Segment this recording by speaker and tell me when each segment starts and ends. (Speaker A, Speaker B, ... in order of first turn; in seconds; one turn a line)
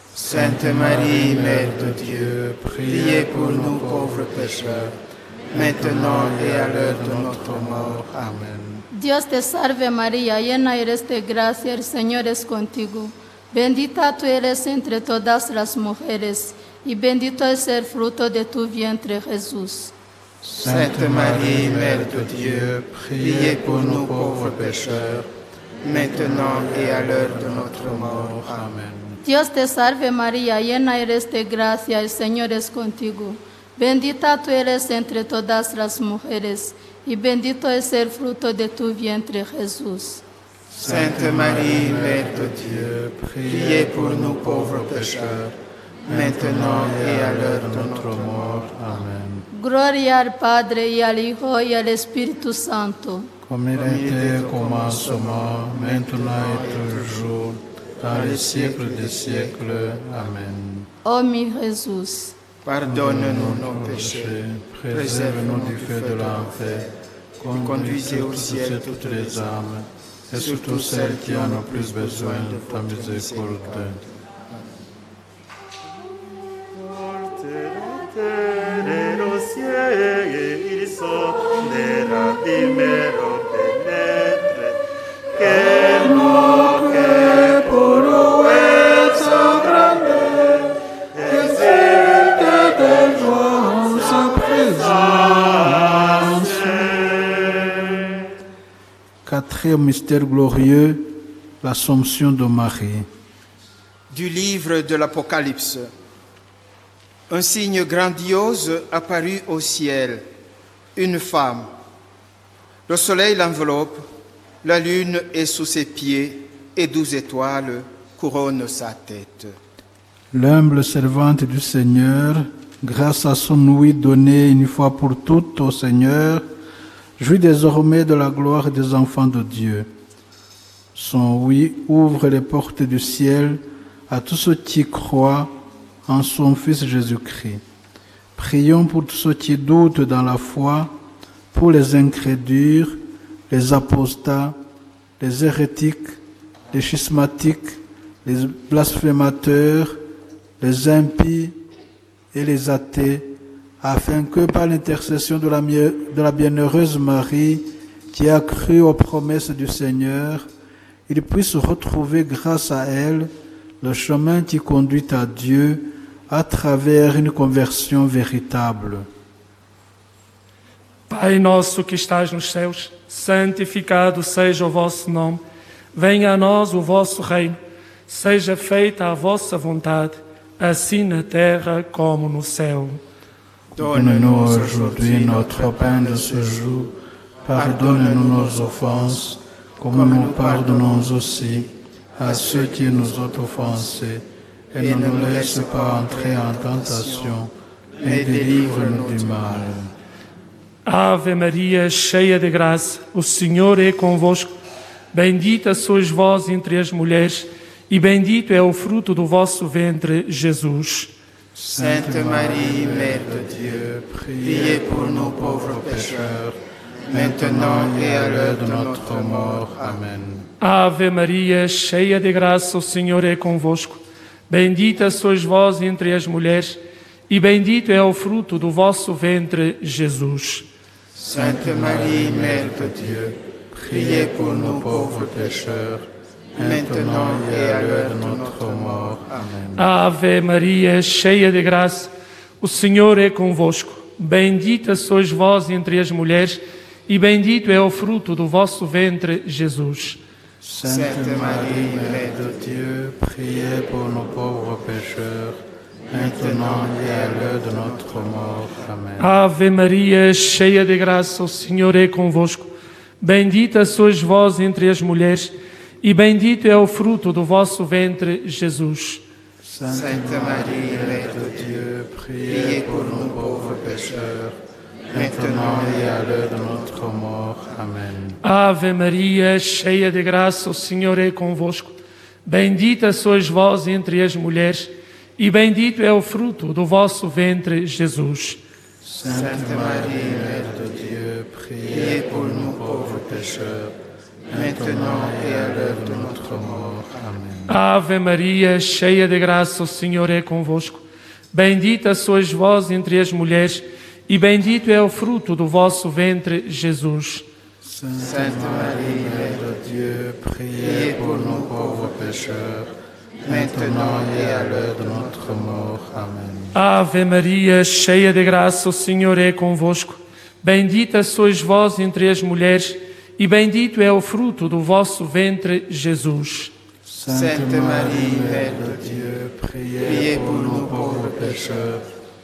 Speaker A: 0.1-5.0
Speaker B: 0.2-2.4
Speaker B: 2.9-4.9
Speaker B: 5.5-8.3
Speaker A: 5.5-8.9
Speaker C: 8.9-19.9
Speaker A: 20.4-25.3
Speaker B: 20.6-25.2
Speaker B: 25.8-28.7
Speaker A: 25.9-29.2
Speaker C: 29.2-40.2
Speaker A: 40.7-45.5
Speaker B: 40.8-42.9
Speaker B: 43.5-45.4
Speaker A: 46.1-49.5
Speaker B: 46.1-48.8
Speaker C: 49.5-53.3
Speaker A: 53.4-60.9
Speaker B: 53.8-57.3
Speaker B: 58.1-59.7
Speaker C: 61.0-62.4
Speaker B: 62.6-66.8
Speaker A: 62.8-74.0
Speaker B: 67.5-69.6
Speaker B: 70.3-74.1
Speaker D: 76.7-84.8
Speaker D: 85.3-90.5
Speaker A: 86.0-90.7
Speaker D: 91.2-98.1
Speaker A: 91.3-97.0
Speaker A: 99.2-103.1
Speaker B: 104.1-105.9
Speaker B: 107.3-110.3
Speaker B: 111.0-111.7
Speaker B: 112.9-114.1
Speaker B: 114.6-119.6
Speaker A: 120.3-126.5
Speaker A: 127.2-129.9
Speaker A: 130.9-137.6
Speaker A: 138.4-140.9
Speaker A: 141.5-144.6
Speaker A: 145.2-146.2
Speaker A: 146.7-150.0
Speaker A: 150.6-151.6
Speaker A: 152.3-160.5
Speaker A: 161.1-163.3
Speaker A: 163.8-169.1
Speaker E: 171.1-175.4
Speaker E: 175.9-183.0
Speaker B: 183.8-186.8
Speaker A: 183.8-199.9
Speaker B: 187.5-189.2
Speaker B: 189.9-191.2
Speaker B: 192.2-193.0
Speaker B: 194.8-197.4
Speaker B: 198.0-199.7
Speaker E: 200.8-204.5
Speaker E: 205.1-211.1
Speaker A: 211.6-216.6
Speaker B: 211.7-213.7
Speaker B: 214.4-216.4
Speaker B: 217.1-220.0
Speaker A: 217.1-220.5
Speaker E: 220.6-230.7
Speaker A: 231.2-239.9
Speaker B: 231.2-233.3
Speaker B: 233.9-235.7
Speaker B: 236.6-239.5
Speaker E: 239.8-250.2
Speaker A: 250.6-259.3
Speaker B: 250.8-252.5
Speaker B: 256.1-258.8
Speaker E: 259.2-262.7
Speaker E: 263.2-269.2
Speaker A: 269.6-278.4
Speaker B: 269.9-271.8
Speaker B: 272.4-274.2
Speaker B: 275.1-276.9
Speaker E: 278.4-288.6
Speaker A: 289.0-294.0
Speaker B: 289.3-290.9
Speaker B: 291.9-293.6
Speaker A: 294.5-297.8
Speaker B: 294.5-297.2
Speaker E: 297.7-307.5
Speaker A: 307.8-316.8
Speaker B: 308.2-309.6
Speaker B: 310.8-312.6
Speaker B: 313.4-316.1
Speaker E: 316.7-326.7
Speaker A: 327.1-332.1
Speaker B: 327.3-329.0
Speaker B: 330.0-331.8